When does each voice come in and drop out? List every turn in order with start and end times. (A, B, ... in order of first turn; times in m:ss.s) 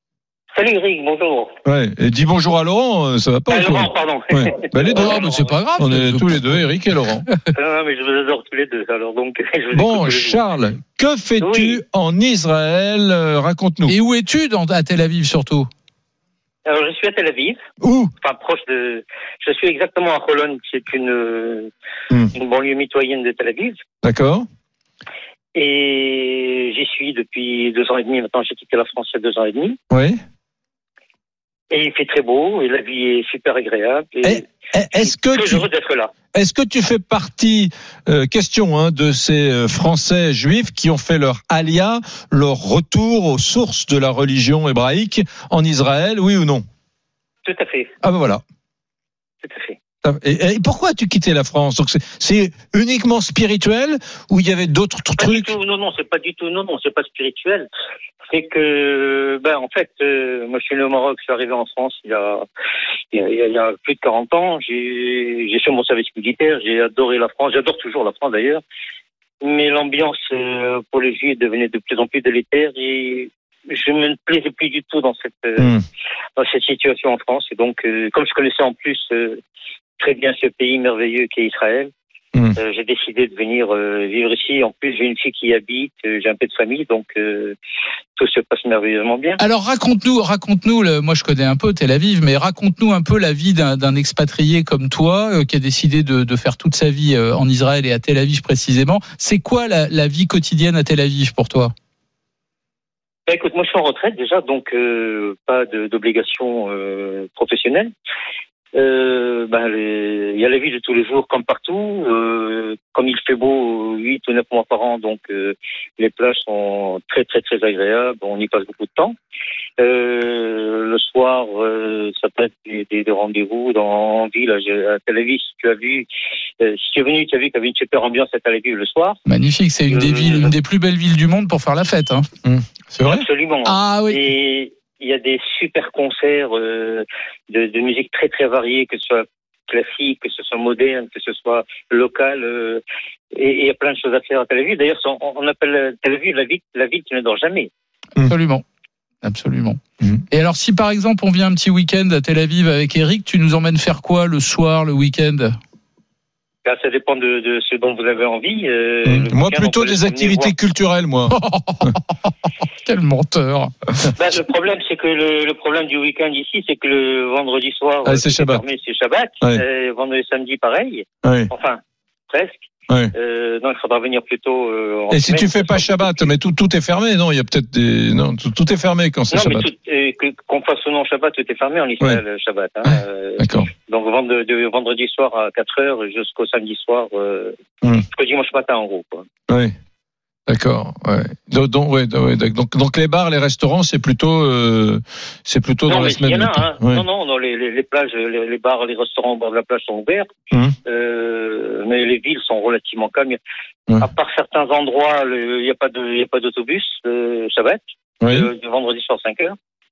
0:00.5-0:01.5 A
0:01.6-0:07.2 B
0:03.5-0:05.5 A
0:04.9-0:06.6 C
0:07.5-0:10.4 A
0:09.7-0:14.0 B
0:11.4-0:11.8 A
0:13.9-0:15.7 C
0:16.6-0:17.6 A
0:17.8-0:18.1 B
0:18.2-0:21.7 A
0:22.3-0:23.8 A
0:24.0-0:24.4 B
0:25.5-0:29.8 A
0:29.9-0:30.2 B
0:31.7-0:36.1 A
0:34.2-0:35.6 B
0:36.3-0:46.6 B
0:47.4-0:47.9 A
0:48.0-0:48.4 B
0:49.4-0:49.8 A
0:50.0-0:55.5 B
0:55.2-0:57.7 A
0:58.3-1:02.4 A
1:03.1-1:08.6 A
1:09.4-1:15.7 A
1:16.4-1:19.4 A
1:20.0-1:21.9 A
1:22.6-1:27.6 A
1:28.2-1:29.4 A
1:29.4-1:41.7 C
1:43.3-1:47.9 A
1:48.7-1:59.1 A
1:59.8-2:06.1 A
2:06.6-2:09.2 A
2:09.2-2:12.2 C
2:09.9-2:10.5 A
2:12.4-2:13.2 B
2:13.0-2:22.8 A
2:13.6-2:14.2 C
2:23.3-2:27.7 A
2:28.2-2:28.6 C
2:29.2-2:29.8 C
2:30.3-2:35.5 C
2:36.6-2:40.5 A
2:39.0-2:42.0 B
2:41.3-2:42.0 C
2:42.8-2:44.1 C
2:44.1-2:56.3 A
2:48.0-2:48.6 B
2:51.2-2:51.5 B
2:55.1-2:59.7 B
2:59.3-3:07.5 A
3:03.4-3:03.7 B
3:08.1-3:09.3 A
3:09.5-3:09.7 B
3:10.5-3:17.0 B
3:15.9-3:20.3 A
3:20.8-3:23.4 A
3:24.0-3:29.6 A
3:28.2-3:28.5 B